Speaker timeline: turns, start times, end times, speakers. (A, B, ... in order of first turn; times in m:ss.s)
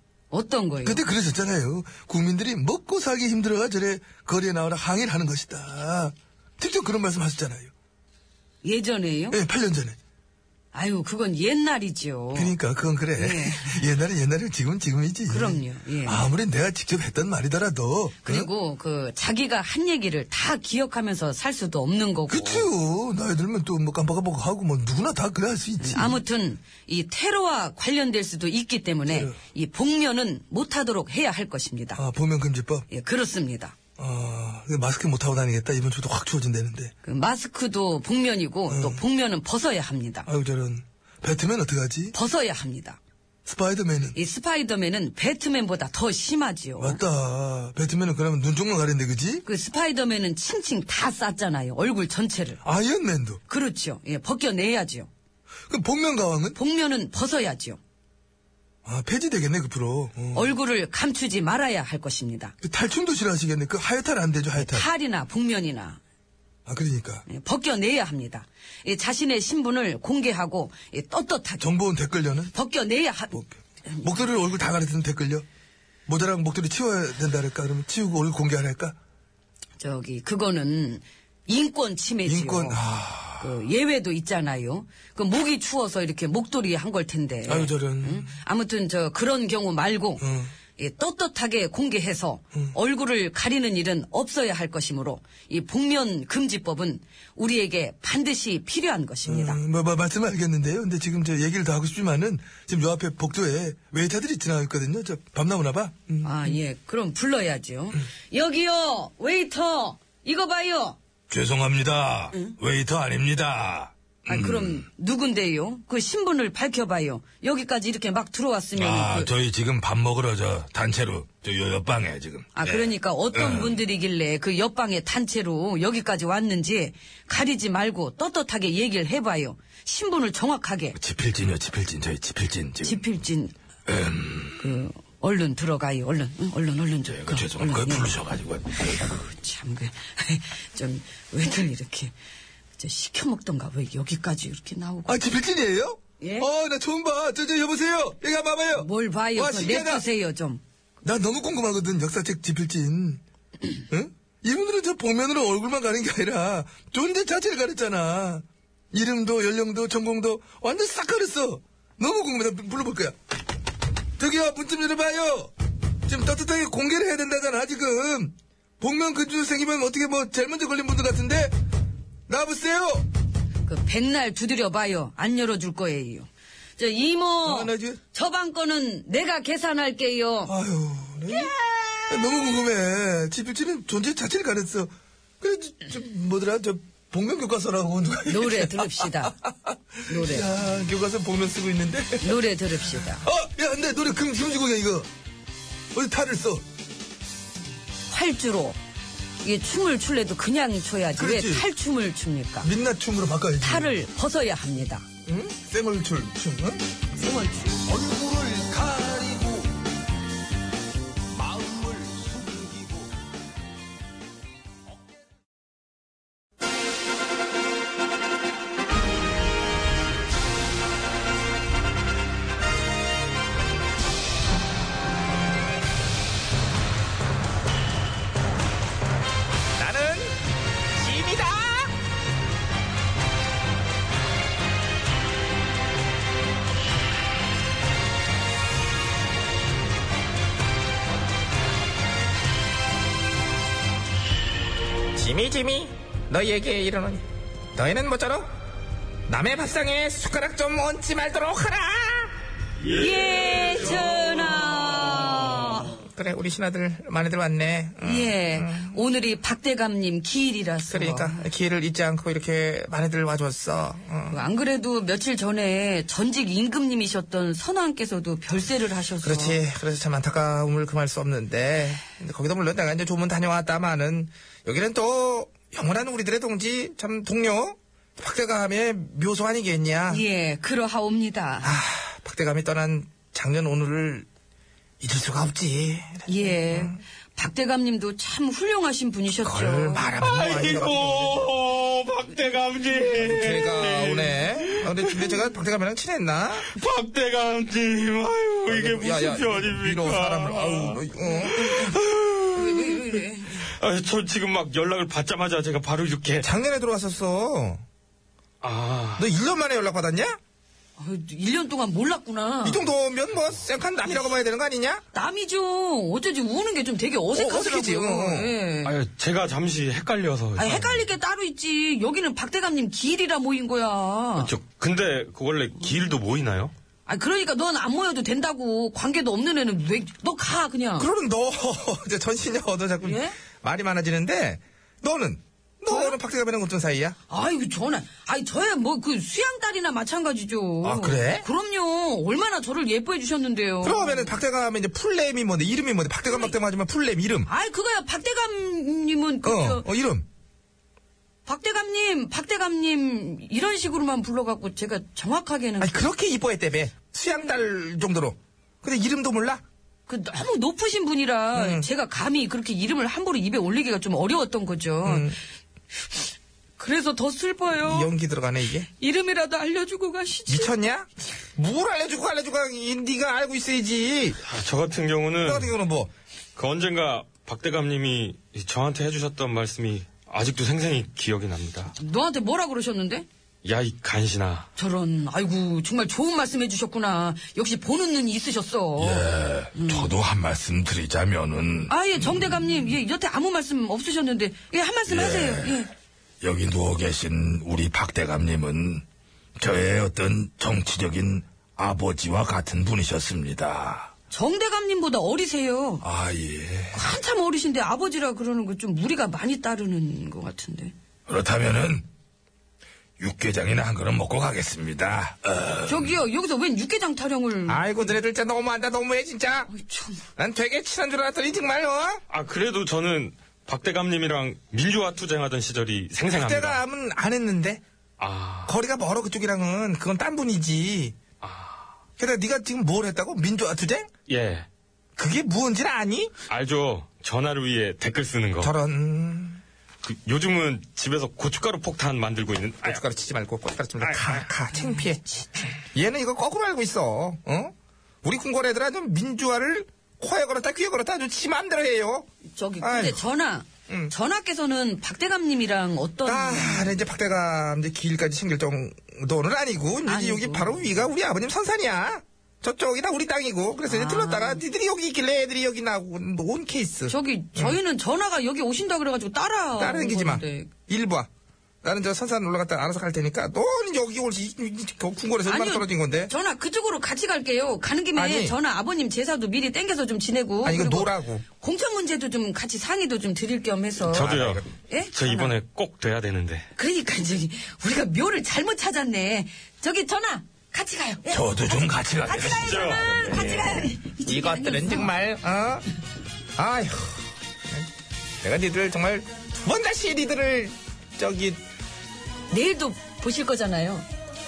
0:00.3-0:01.0 A
0:00.8-0:07.7 B
0:08.6-0:09.4 A
0:09.3-0:10.0 B
0:10.7-0:12.6 A
0:12.3-0:18.5 B
0:13.1-0:13.9 A
0:15.3-0:16.2 A
0:18.2-0:22.7 A
0:22.3-0:26.2 B
0:25.8-0:32.0 A
0:29.1-0:29.4 B
0:32.0-0:32.9 B
0:32.9-0:33.7 A
0:34.0-0:36.9 B
0:37.0-0:40.3 A
0:38.7-0:39.0 B
0:40.2-0:42.1 B
0:42.1-0:43.0 A
0:43.4-0:44.2 B
0:44.1-0:47.0 A
0:46.8-0:49.4 B
0:49.4-0:52.6 A
0:52.6-0:53.4 B
0:53.5-0:55.1 A
0:55.7-0:56.6 B
0:56.5-0:57.8 A
0:58.8-1:00.5 B
1:00.3-1:02.5 A
1:02.6-1:04.9 B
1:04.5-1:06.0 A
1:06.6-1:07.2 B
1:07.3-1:11.7 A
1:11.6-1:12.5 B
1:12.5-1:14.0 A
1:13.3-1:15.4 B
1:16.1-1:19.0 B
1:19.8-1:22.8 A
1:22.2-1:23.6 B
1:23.4-1:39.6 A
1:27.4-1:28.4 B
1:30.2-1:30.5 B
1:39.2-1:46.6 B
1:46.2-1:51.0 A
1:51.3-1:53.9 C
1:51.3-1:54.4 B
1:54.2-1:59.3 A
1:58.8-2:02.6 C
2:00.0-2:02.8 B
2:02.5-2:11.0 A
2:11.0-2:12.9 B
2:11.0-2:11.4 C
2:12.8-2:13.5 A
2:13.9-2:14.3 B
2:14.6-2:18.2 A
2:17.2-2:18.9 C
2:17.5-2:18.1 B
2:18.7-2:22.1 A
2:22.8-2:25.2 A
2:25.1-2:30.0 B
2:26.2-2:26.5 A
2:28.8-2:30.6 A
2:31.0-2:33.2 B
2:33.9-2:43.2 B
2:44.2-2:45.5 B
2:46.1-2:51.5 B
2:52.3-2:53.1 B
2:53.6-3:00.5 A
2:57.4-2:58.0 B
3:00.4-3:01.5 B
3:02.1-3:15.1 B
3:08.3-3:09.4 A
3:10.1-3:10.5 A
3:12.2-3:13.3 A
3:15.9-3:16.6 B
3:18.1-3:18.8 A
3:19.4-3:22.7 A
3:21.1-3:21.7 B
3:22.6-3:24.0 B
3:23.6-3:25.1 A
3:25.3-3:29.7 B
3:31.5-3:32.6 B
3:49.8-3:50.4 D
3:51.0-3:51.9 D
4:05.1-4:07.2 D
4:07.8-4:08.5 D
4:09.3-4:12.3 D
4:12.8-4:15.9 A
4:16.0-4:18.9 D
4:18.0-4:21.4 A
4:20.9-4:24.4 D
4:24.3-4:29.6 A
4:29.2-4:40.2 D
4:40.1-4:41.8 A
4:41.6-4:44.3 D
4:45.0-4:47.0 D
4:46.3-4:50.2 A
4:49.4-4:51.5 D
4:50.2-4:55.4 E
4:53.2-4:56.8 D
4:56.5-5:06.5 E
4:58.7-5:02.0 D
5:01.2-5:01.7 A
5:02.5-5:03.7 A
5:06.4-5:07.8 D
5:08.6-5:09.3 E
5:09.2-5:10.4 D
5:11.0-5:12.9 A
5:12.6-5:15.0 D
5:15.1-5:19.0 A
5:17.3-5:18.5 D
5:18.8-5:21.1 E
5:20.6-5:24.5 A
5:24.4-5:26.7 E
5:27.0-5:31.1 A
5:31.0-5:37.2 D
5:33.0-5:33.4 A
5:35.9-5:36.2 A
5:37.3-5:44.3 A
5:40.8-5:41.4 D
5:43.8-5:47.5 D
5:46.3-5:46.5 A
5:47.4-5:49.8 A
5:49.4-5:50.2 D
5:51.4-5:56.1 A
5:55.8-5:59.6 D
6:00.1-6:05.3 A
6:01.5-6:01.9 D
6:05.0-6:05.4 D
6:06.8-6:08.1 A
6:07.8-6:08.9 D
6:09.0-6:10.7 A
6:10.5-6:14.4 D
6:14.4-6:15.7 E
6:15.4-6:16.1 D
6:16.6-6:21.9 E
6:22.0-6:23.2 A
6:23.6-6:24.7 E
6:24.8-6:30.1 A
6:29.0-6:31.9 C
6:31.9-6:35.9 A
6:35.1-6:35.6 C
6:36.4-6:39.0 C
6:39.6-6:44.1 C
6:44.3-6:46.0 A
6:46.0-6:46.9 C
6:46.9-6:50.9 A
6:51.3-6:52.0 C
6:53.2-6:55.4 C
6:54.8-6:55.6 B
6:55.8-6:58.2 A
6:57.7-6:59.7 D
6:59.7-7:00.2 A
7:00.4-7:02.2 D
7:02.3-7:06.8 E
7:06.3-7:07.8 D
7:08.2-7:08.7 E
7:08.6-7:11.2 D
7:11.4-7:11.8 E
7:12.2-7:14.1 D
7:14.3-7:14.7 E
7:15.2-7:16.4 D
7:16.5-7:18.7 E
7:18.6-7:19.6 D
7:20.0-7:23.0 E
7:22.8-7:32.3 D
7:24.0-7:24.4 E
7:32.5-7:37.0 A
7:32.8-7:33.2 D
7:33.9-7:34.1 D
7:36.2-7:47.8 D
7:40.0-7:41.0 A
7:43.9-7:44.6 A
7:47.1-7:50.7 A
7:49.8-7:51.3 D
7:51.8-7:56.3 D
7:55.4-8:04.4 A
7:58.1-7:58.6 D
8:00.6-8:01.4 D
8:04.1-8:06.7 E
8:04.1-8:04.7 D
8:04.9-8:05.5 A
8:06.8-8:15.1 A
8:11.4-8:12.6 C
8:11.4-8:12.2 B
8:12.5-8:13.8 E
8:14.2-8:15.9 D
8:16.6-8:17.9 D
8:18.4-8:21.6 D
8:22.5-8:24.1 A